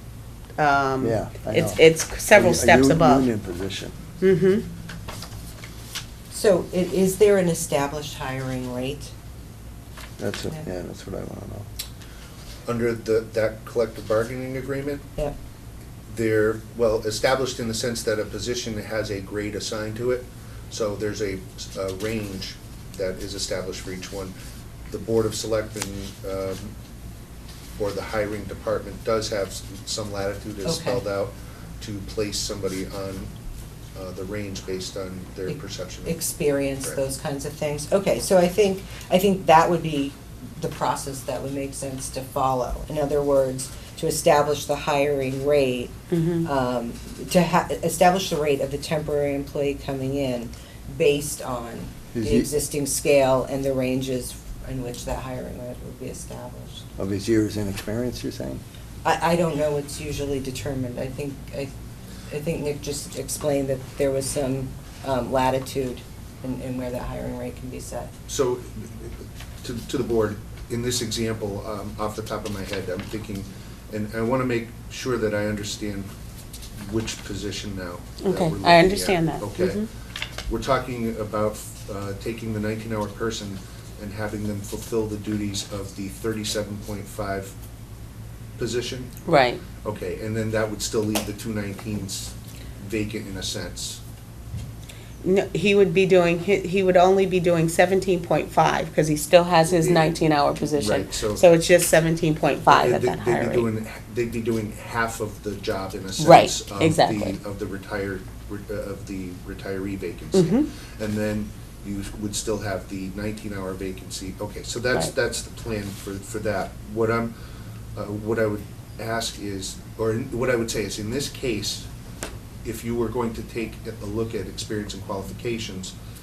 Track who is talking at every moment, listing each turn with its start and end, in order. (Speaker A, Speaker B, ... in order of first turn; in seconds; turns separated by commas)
Speaker A: 0.6-3.3, Speaker B: 1.0-4.0, Speaker A: 4.2-4.7, Speaker C: 6.3-9.1, Speaker B: 10.2-11.7, Speaker D: 12.7-15.1, Speaker D: 16.1-24.4, Speaker D: 24.9-26.7, Speaker D: 27.8-33.3, Speaker C: 30.6-31.0, Speaker D: 34.0-37.0, Speaker C: 35.5-45.9, Speaker A: 46.1-46.5, Speaker C: 46.5-56.9, Speaker B: 52.1-52.5, Speaker B: 57.0-58.6, Speaker C: 59.0-61.7, Speaker C: 62.3-68.1, Speaker D: 68.3-76.1, Speaker D: 76.8-79.8, Speaker A: 78.2-79.9, Speaker D: 80.5-87.5, Speaker D: 88.6-89.1, Speaker A: 89.3-89.6, Speaker D: 89.8-94.0, Speaker A: 95.2-103.7, Speaker D: 99.7-101.5, Speaker D: 102.6-117.3, Speaker A: 106.2-107.4, Speaker A: 110.3-110.7, Speaker D: 118.0-121.9, Speaker D: 122.6-126.0